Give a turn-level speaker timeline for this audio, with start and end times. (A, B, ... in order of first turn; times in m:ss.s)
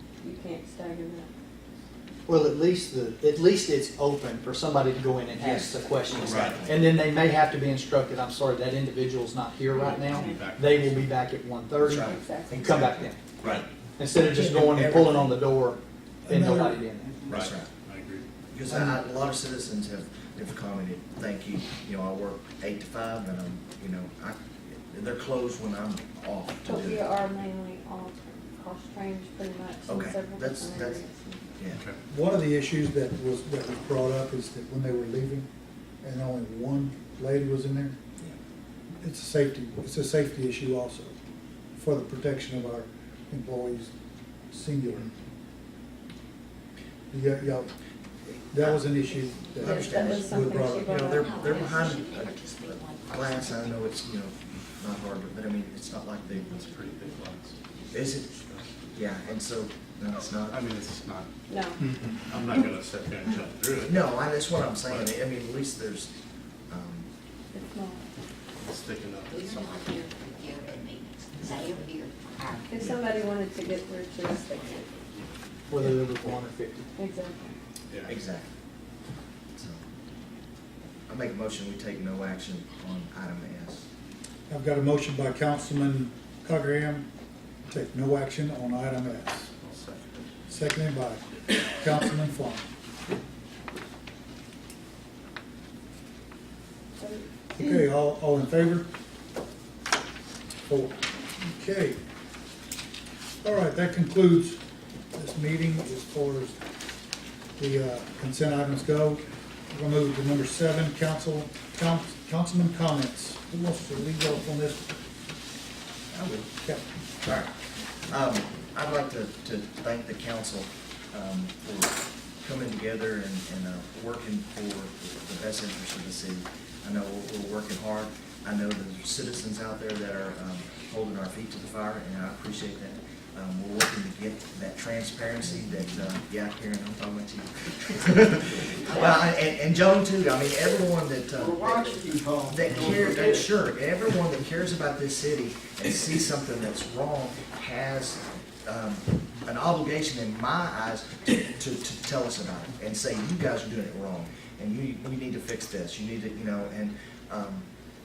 0:00.2-0:01.3 A
0:02.3-0:13.2 B
0:05.4-0:06.8 C
0:06.2-0:06.6 D
0:09.7-0:11.1 D
0:09.9-0:10.4 A
0:11.8-0:13.7 C
0:12.0-0:12.7 A
0:14.0-0:17.2 B
0:14.2-0:15.4 C
0:16.3-0:16.6 E
0:17.3-0:17.7 C
0:17.3-0:18.3 D
0:18.5-0:27.1 C
0:26.6-0:31.4 A
0:29.9-0:31.0 C
0:31.6-0:31.8 C
0:31.7-0:32.0 D
0:32.1-0:35.5 E
0:36.0-0:38.0 E
0:39.0-0:41.1 E
0:41.8-0:43.9 E
0:44.5-0:45.1 E
0:47.1-0:47.7 E
0:48.5-0:51.1 E
0:49.6-0:56.6 C
0:49.6-0:51.5 A
0:51.2-0:53.7 F
0:56.3-0:57.6 D
0:57.9-0:58.3 C
0:58.3-0:59.3 D
0:58.9-1:00.6 C
1:00.5-1:01.3 D
1:01.5-1:01.8 A
1:02.3-1:04.2 D
1:03.9-1:06.1 C
1:04.8-1:05.1 D
1:06.7-1:07.1 C
1:07.5-1:08.1 A
1:08.6-1:10.2 D
1:09.3-1:12.6 F
1:12.7-1:14.9 A
1:15.0-1:15.3 D
1:15.7-1:16.9 B
1:17.0-1:17.5 A
1:17.9-1:18.2 D
1:18.0-1:18.5 C
1:19.6-1:19.8 C
1:21.1-1:23.8 C
1:24.5-1:27.1 E
1:27.7-1:29.5 E
1:29.6-1:30.3 D
1:30.5-1:32.7 E
1:37.0-1:37.3 A
1:37.6-1:38.9 E
1:40.7-1:42.0 E
1:43.4-1:44.6 E
1:45.1-1:46.6 E
1:47.6-1:54.8 E
1:56.1-1:56.8 E
1:57.2-1:57.5 C
1:58.1-2:37.7 C
2:21.4-2:23.5 B